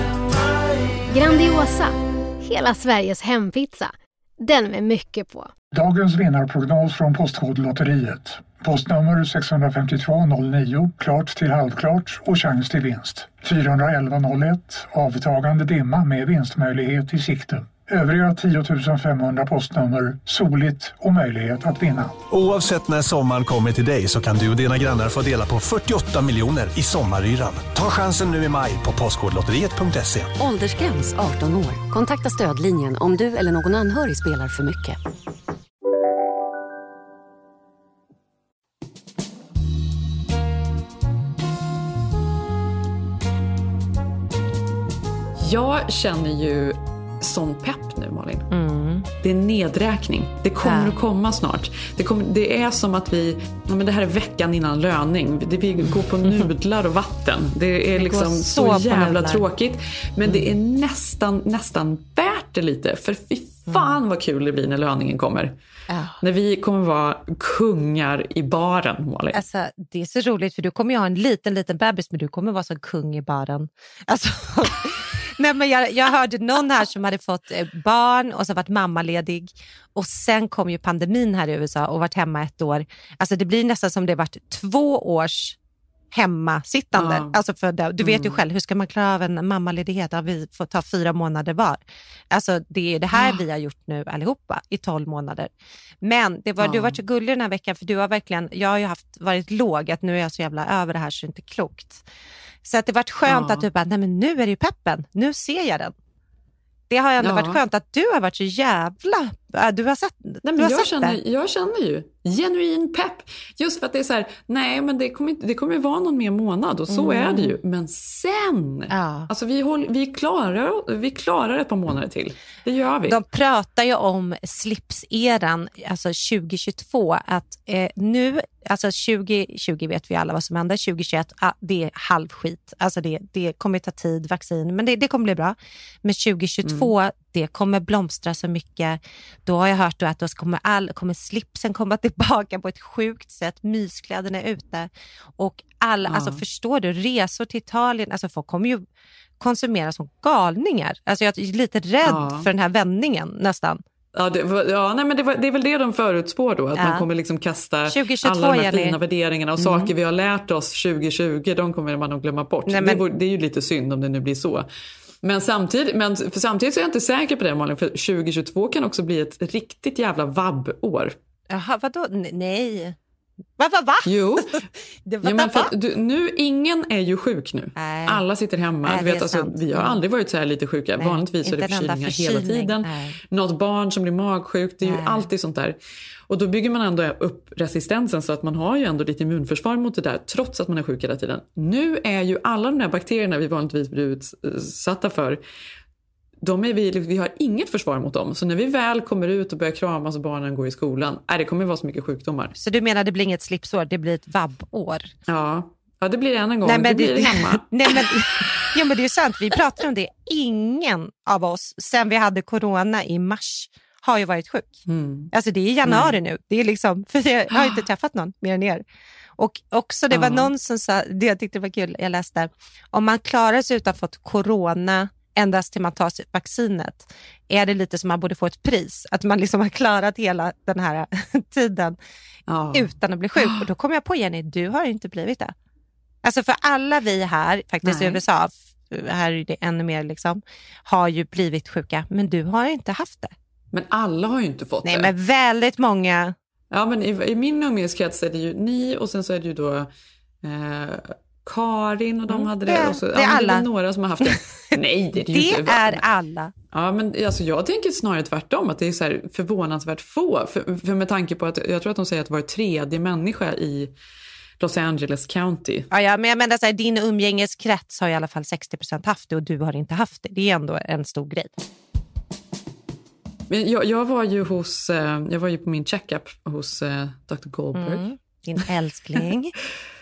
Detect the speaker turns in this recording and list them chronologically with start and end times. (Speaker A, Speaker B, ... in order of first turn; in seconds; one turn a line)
Speaker A: 1.1-5.5
Speaker B: 5.7-22.2
Speaker C: 22.3-30.3
Speaker D: 30.4-35.0
Speaker E: 45.4-48.5
Speaker F: 48.5-49.1
Speaker E: 49.2-65.5
Speaker F: 50.6-51.0
Speaker F: 57.9-59.4
Speaker F: 60.2-60.5
Speaker F: 63.7-64.0
Speaker F: 65.9-66.2
Speaker E: 66.2-69.4
Speaker F: 69.3-85.6
Speaker F: 86.1-102.0
Speaker E: 86.9-87.4
Speaker E: 88.0-88.4
Speaker E: 93.1-93.4
Speaker E: 96.6-97.0
Speaker F: 102.6-105.9
Speaker E: 103.2-103.6
Speaker F: 106.9-111.2
Speaker E: 107.2-107.6
Speaker E: 110.4-123.2
Speaker F: 116.9-117.5
Speaker F: 118.9-119.3
Speaker F: 123.0-148.8
Speaker E: 136.6-136.9
Speaker E: 146.1-146.4
Speaker F: 149.4-153.8
Speaker E: 152.0-152.5
Speaker E: 154.1-164.7
Speaker F: 156.8-157.1
Speaker F: 157.9-159.0
Speaker F: 159.6-159.9
Speaker F: 162.7-163.0
Speaker E: 165.2-171.2
Speaker F: 171.5-173.0
Speaker F: 173.6-174.5
Speaker E: 174.0-174.7
Speaker F: 175.1-175.7
Speaker E: 175.2-185.8
Speaker F: 177.8-178.2
Speaker F: 178.8-180.0
Speaker F: 181.0-183.2
Speaker F: 184.8-185.3
Speaker E: 186.3-195.4
Speaker E: 196.4-202.5
Speaker F: 202.6-205.1
Speaker E: 205.3-208.0
Speaker F: 206.6-214.8
Speaker E: 214.9-215.3
Speaker F: 215.3-218.8
Speaker E: 215.8-216.1
Speaker E: 217.5-217.8
Speaker F: 219.4-232.0
Speaker E: 220.1-220.5
Speaker E: 232.5-233.6
Speaker F: 232.7-235.5
Speaker F: 236.2-243.3
Speaker E: 237.8-238.2
Speaker E: 243.7-245.1
Speaker F: 244.8-246.3
Speaker E: 246.7-249.9
Speaker E: 250.4-256.0
Speaker F: 252.3-253.7
Speaker F: 255.1-256.5
Speaker E: 256.7-263.9
Speaker E: 264.6-265.9
Speaker F: 265.9-271.5
Speaker E: 273.5-278.0
Speaker F: 277.7-279.5